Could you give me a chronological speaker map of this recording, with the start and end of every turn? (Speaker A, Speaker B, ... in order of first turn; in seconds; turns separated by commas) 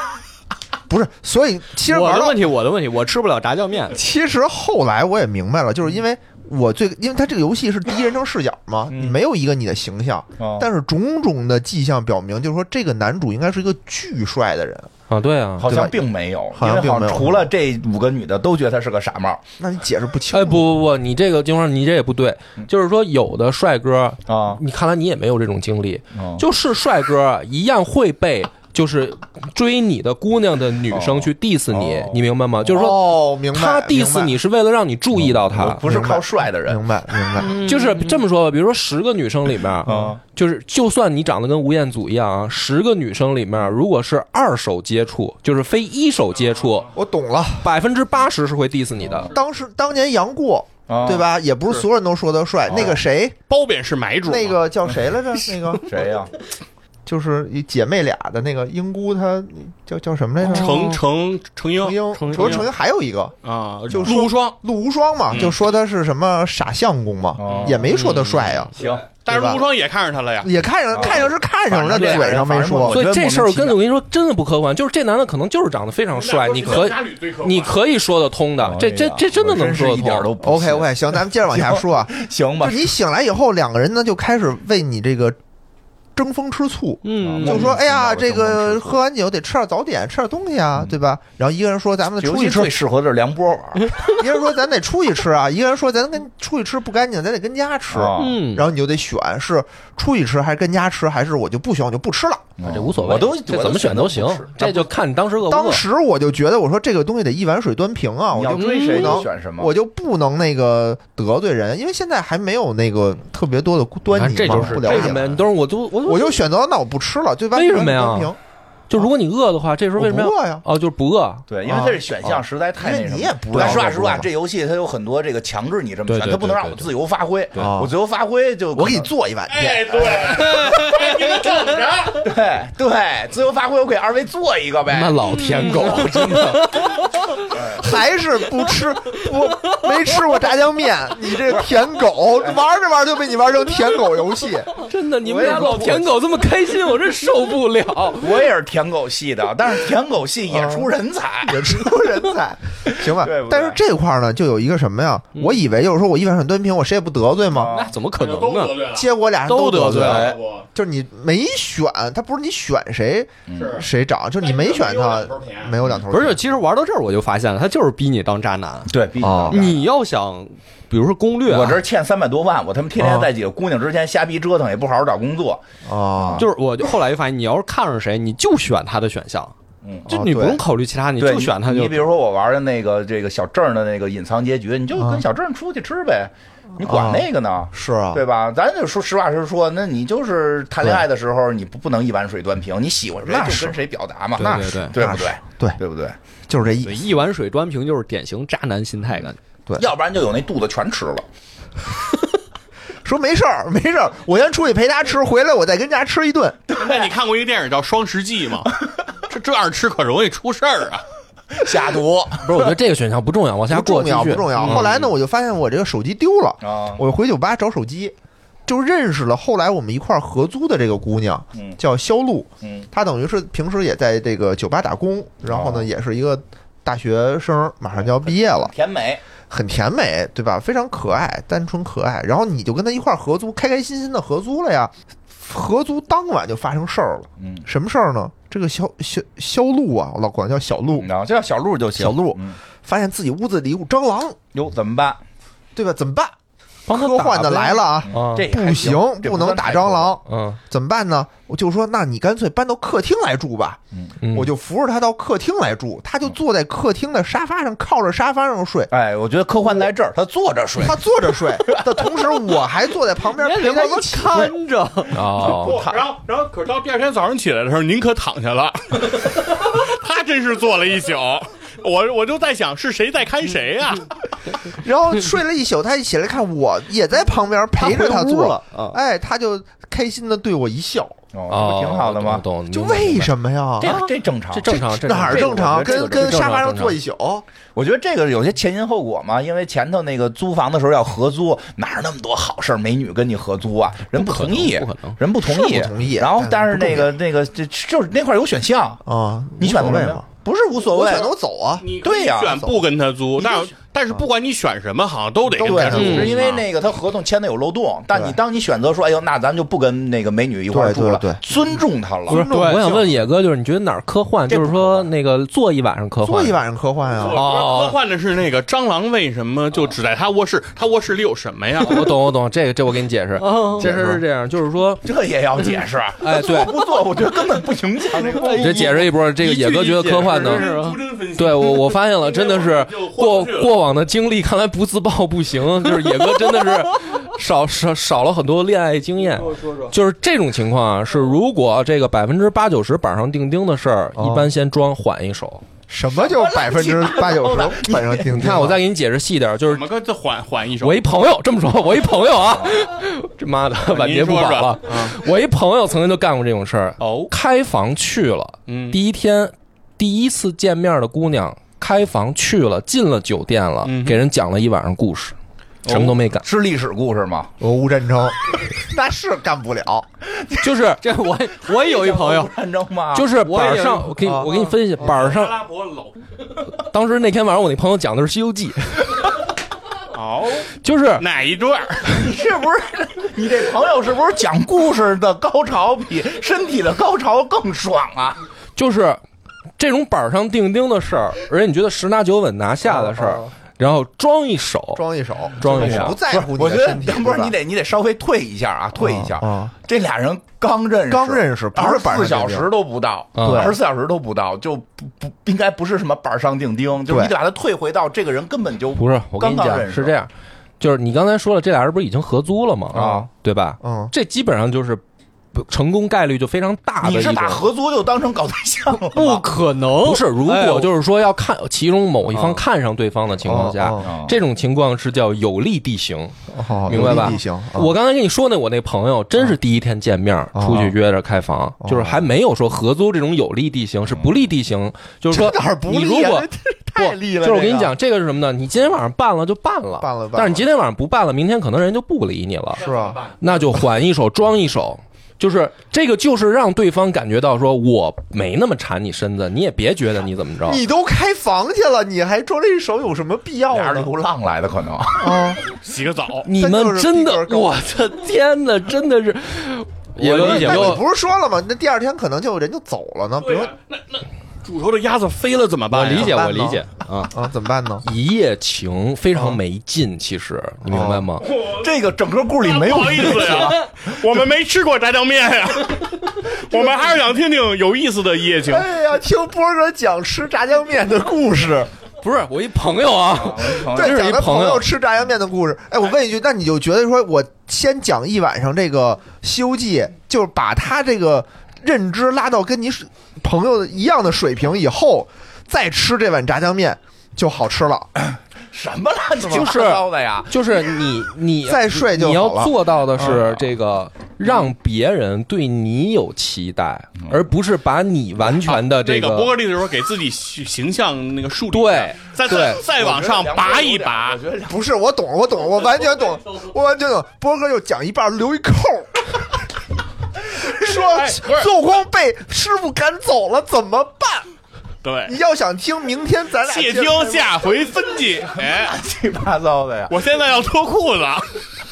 Speaker A: 0.9-2.4, Speaker B: 1.8-4.0, Speaker A: 3.9-14.9, Speaker C: 8.9-9.2, Speaker C: 10.4-10.7, Speaker D: 15.1-15.8, Speaker C: 15.6-19.4, Speaker A: 15.6-17.5, Speaker A: 19.6-20.7, Speaker D: 20.3-35.9, Speaker C: 24.3-24.6, Speaker C: 26.1-26.4, Speaker C: 30.9-32.2, Speaker A: 32.7-34.4, Speaker C: 35.4-36.8, Speaker A: 35.7-37.6, Speaker B: 37.4-38.2, Speaker D: 37.5-46.9, Speaker C: 39.9-40.2, Speaker A: 46.9-47.7, Speaker D: 47.6-49.3, Speaker C: 49.0-49.3, Speaker A: 49.3-53.4, Speaker C: 50.9-51.3, Speaker C: 52.7-53.0, Speaker E: 53.5-54.6, Speaker A: 54.2-55.9, Speaker C: 55.9-56.3, Speaker A: 57.1-60.9, Speaker B: 60.4-61.0, Speaker E: 60.4-62.7, Speaker A: 61.8-63.3, Speaker B: 62.1-62.7, Speaker E: 63.4-64.6, Speaker A: 63.9-68.7, Speaker C: 63.9-64.2, Speaker E: 65.3-65.6, Speaker C: 67.4-67.9, Speaker E: 67.4-67.8, Speaker B: 67.9-68.7, Speaker C: 68.8-69.0, Speaker E: 69.2-70.5, Speaker A: 69.3-69.7, Speaker A: 70.4-73.0, Speaker C: 70.9-73.8, Speaker D: 72.9-80.3, Speaker E: 76.1-77.8, Speaker C: 78.6-82.9, Speaker A: 80.4-85.4, Speaker A: 86.2-92.8, Speaker B: 87.0-87.8, Speaker C: 87.2-89.0, Speaker C: 92.2-94.1, Speaker A: 94.0-102.5, Speaker C: 97.9-98.4, Speaker B: 98.2-98.7, Speaker C: 102.6-104.9, Speaker D: 102.6-105.8, Speaker A: 105.5-115.4, Speaker C: 108.3-109.7, Speaker B: 108.5-109.3, Speaker B: 114.1-115.3, Speaker D: 114.5-116.4, Speaker A: 116.0-118.4, Speaker D: 117.5-118.3, Speaker D: 118.9-121.5, Speaker A: 120.0-120.7, Speaker C: 121.5-129.1, Speaker A: 121.7-122.1, Speaker A: 122.8-124.3, Speaker B: 126.1-126.9, Speaker D: 126.3-126.7, Speaker A: 127.6-127.9, Speaker A: 128.7-130.2, Speaker E: 129.5-132.3, Speaker C: 129.9-130.6, Speaker C: 132.2-136.3, Speaker B: 134.9-136.8, Speaker D: 135.2-137.5, Speaker C: 137.5-137.9, Speaker A: 137.7-144.7, Speaker D: 144.7-148.5, Speaker C: 145.2-146.1, Speaker C: 148.2-151.7, Speaker A: 150.5-150.9, Speaker A: 151.4-157.7, Speaker C: 153.0-153.8, Speaker C: 157.5-157.9, Speaker B: 157.7-158.8, Speaker E: 158.1-159.1, Speaker A: 158.9-166.4, Speaker B: 159.5-160.3, Speaker C: 160.0-160.4, Speaker E: 160.1-160.7, Speaker C: 163.5-163.8, Speaker E: 163.6-163.9, Speaker E: 164.4-165.8, Speaker B: 166.1-168.9, Speaker C: 168.9-169.8, Speaker A: 169.2-169.7, Speaker B: 169.5-171.8, Speaker C: 171.5-175.6, Speaker A: 173.0-173.3, Speaker A: 175.8-176.5, Speaker C: 176.2-176.5, Speaker B: 176.4-179.5, Speaker C: 179.8-180.1, Speaker B: 180.1-182.1, Speaker A: 180.1-180.6, Speaker C: 181.2-196.2, Speaker A: 185.0-185.2, Speaker A: 186.8-188.2, Speaker A: 193.2-193.8, Speaker B: 194.4-194.9, Speaker A: 194.9-195.8, Speaker A: 196.5-197.1, Speaker B: 196.8-199.4, Speaker C: 199.8-201.3, Speaker A: 203.0-206.6, Speaker C: 206.7-207.1, Speaker E: 206.8-211.0, Speaker C: 211.5-212.7, Speaker D: 212.4-214.9, Speaker A: 213.7-218.2, Speaker C: 214.6-215.1, Speaker C: 216.6-217.0, Speaker A: 218.7-228.7, Speaker C: 222.6-222.9, Speaker C: 225.5-225.9, Speaker C: 228.0-229.2, Speaker A: 229.5-241.1, Speaker C: 237.4-237.7, Speaker C: 241.0-242.6, Speaker A: 241.9-244.4, Speaker C: 244.5-245.2, Speaker A: 245.8-246.3, Speaker D: 246.9-248.5, Speaker A: 246.9-253.8, Speaker C: 248.1-250.2, Speaker D: 250.2-250.6, Speaker D: 254.2-254.5, Speaker A: 254.3-258.9, Speaker C: 258.9-261.0, Speaker A: 260.8-264.6, Speaker B: 263.3-265.2, Speaker D: 265.1-265.8, Speaker C: 265.4-266.0, Speaker E: 265.4-274.2, Speaker A: 274.7-281.2, Speaker B: 277.8-279.0, Speaker C: 281.3-282.5, Speaker D: 281.5-283.3, Speaker A: 282.7-284.0, Speaker C: 283.8-286.5, Speaker D: 284.5-287.0, Speaker A: 284.7-287.4, Speaker C: 287.8-299.0, Speaker B: 294.1-295.2, Speaker A: 295.4-297.1, Speaker A: 299.1-300.2, Speaker C: 299.6-301.3, Speaker A: 300.8-301.9, Speaker E: 301.8-306.7, Speaker C: 302.0-302.7, Speaker C: 303.4-303.7, Speaker A: 305.5-306.3, Speaker C: 305.6-312.4, Speaker B: 306.0-306.4, Speaker A: 308.1-308.4, Speaker A: 310.7-311.4, Speaker A: 312.3-313.0, Speaker D: 312.3-316.6, Speaker B: 312.3-313.0, Speaker C: 314.5-315.1, Speaker A: 316.2-317.5, Speaker E: 317.2-322.1, Speaker D: 317.3-318.0, Speaker D: 321.8-325.0, Speaker B: 323.4-324.2, Speaker C: 325.0-328.9, Speaker D: 326.2-326.8, Speaker B: 328.1-331.0, Speaker D: 328.5-330.7, Speaker E: 330.1-333.7, Speaker D: 331.4-345.6, Speaker A: 344.2-344.5, Speaker A: 345.9-348.8, Speaker C: 346.2-348.3, Speaker D: 348.3-349.9, Speaker E: 349.7-351.0, Speaker D: 350.8-366.5, Speaker E: 353.9-355.2, Speaker B: 357.0-357.3, Speaker E: 358.7-359.0, Speaker E: 363.8-364.2, Speaker C: 365.9-367.5, Speaker A: 367.6-370.1, Speaker C: 370.3-370.8, Speaker D: 370.6-371.0, Speaker B: 371.0-372.5, Speaker C: 371.7-373.3, Speaker D: 373.1-375.7, Speaker B: 373.4-374.8, Speaker A: 374.2-374.5, Speaker E: 375.0-376.2, Speaker D: 376.6-379.2, Speaker E: 380.1-382.1, Speaker D: 380.8-381.3, Speaker C: 382.1-388.4, Speaker D: 388.8-389.2, Speaker D: 389.8-395.0, Speaker A: 392.8-393.5, Speaker A: 394.9-397.6, Speaker D: 395.6-396.2, Speaker C: 395.6-410.1, Speaker A: 399.0-399.7, Speaker A: 401.1-402.7, Speaker D: 403.4-403.7, Speaker A: 403.4-403.8, Speaker A: 407.1-407.3, Speaker D: 409.0-415.0, Speaker C: 412.9-413.3, Speaker A: 413.8-414.1, Speaker D: 415.5-417.7, Speaker C: 417.0-419.4, Speaker B: 419.0-420.9, Speaker D: 420.0-442.8, Speaker B: 422.3-422.6, Speaker A: 423.4-424.1, Speaker C: 424.0-424.4, Speaker A: 426.5-427.9, Speaker A: 430.5-430.9, Speaker A: 431.8-432.3, Speaker A: 435.3-437.9, Speaker A: 440.0-440.6, Speaker A: 442.8-443.2, Speaker E: 442.8-443.4, Speaker D: 443.4-450.8, Speaker A: 450.7-454.1, Speaker C: 453.7-455.5, Speaker A: 455.2-455.6, Speaker E: 455.8-456.5, Speaker D: 456.4-461.0, Speaker A: 456.6-457.7, Speaker B: 460.2-461.0, Speaker A: 460.4-463.7, Speaker E: 463.4-466.4, Speaker B: 465.9-467.3, Speaker A: 466.1-468.1, Speaker D: 468.0-471.5, Speaker A: 470.9-471.3, Speaker E: 471.5-471.9, Speaker C: 471.6-473.8, Speaker E: 472.6-478.9, Speaker A: 478.6-481.9, Speaker D: 482.2-484.9, Speaker C: 483.3-484.3, Speaker A: 483.7-498.1, Speaker C: 498.2-500.8, Speaker D: 499.5-509.6, Speaker A: 501.6-503.5, Speaker E: 508.5-514.4, Speaker D: 511.7-512.9, Speaker C: 512.5-514.8, Speaker A: 514.7-519.4, Speaker A: 520.6-524.5, Speaker E: 520.9-521.7, Speaker E: 525.0-525.4, Speaker A: 525.3-527.5, Speaker E: 526.7-529.0, Speaker C: 528.6-530.1, Speaker E: 530.1-531.6